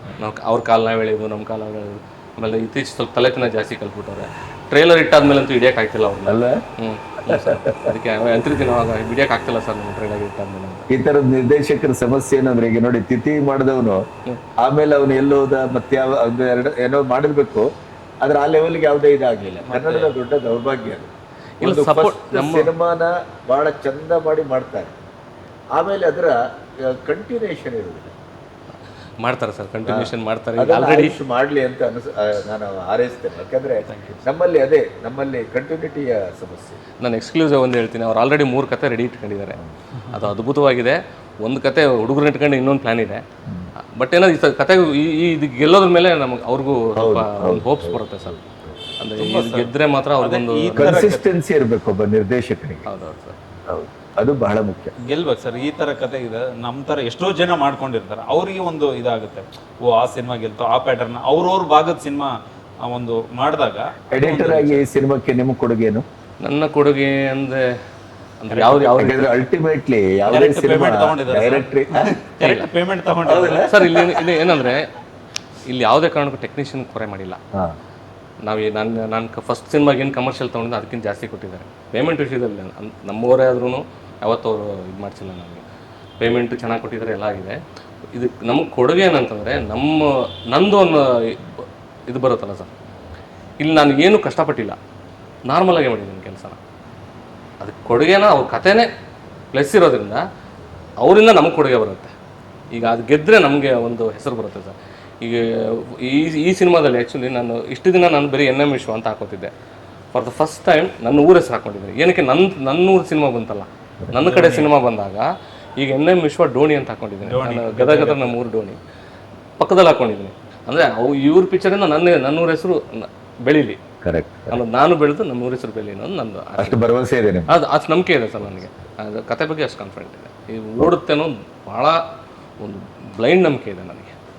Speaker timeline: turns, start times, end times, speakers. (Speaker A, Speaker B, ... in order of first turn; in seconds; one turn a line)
Speaker A: 0.2-10.9
Speaker B: 6.3-6.6
Speaker B: 7.3-7.9
Speaker B: 10.9-14.0
Speaker B: 14.6-17.7
Speaker B: 18.2-21.1
Speaker C: 19.7-20.1
Speaker A: 21.6-22.7
Speaker B: 21.6-25.0
Speaker B: 25.8-28.1
Speaker A: 29.2-31.2
Speaker B: 29.9-36.8
Speaker C: 33.9-34.2
Speaker A: 37.0-39.6
Speaker C: 40.0-40.2
Speaker A: 40.1-43.2
Speaker A: 44.0-48.4
Speaker B: 47.0-48.7
Speaker A: 49.0-51.1
Speaker C: 49.2-51.2
Speaker B: 50.8-52.9
Speaker A: 52.9-53.4
Speaker B: 53.7-54.9
Speaker C: 55.0-64.8
Speaker B: 64.1-66.1
Speaker A: 66.4-67.6
Speaker A: 68.4-69.2
Speaker B: 68.6-72.1
Speaker C: 70.3-73.7
Speaker A: 72.4-72.7
Speaker B: 73.3-74.2
Speaker A: 73.7-74.9
Speaker A: 75.7-77.4
Speaker A: 78.5-85.6
Speaker A: 86.2-87.6
Speaker A: 88.1-92.7
Speaker A: 93.6-94.8
Speaker A: 95.5-96.6
Speaker A: 97.6-98.9
Speaker A: 99.5-100.2
Speaker A: 101.0-102.1
Speaker A: 102.7-105.4
Speaker A: 106.0-109.5
Speaker A: 110.1-115.3
Speaker C: 114.1-114.7
Speaker A: 115.8-118.8
Speaker C: 117.2-118.4
Speaker A: 119.6-123.8
Speaker B: 124.0-124.6
Speaker A: 124.5-126.8
Speaker B: 126.6-127.5
Speaker A: 127.5-132.0
Speaker A: 132.6-134.1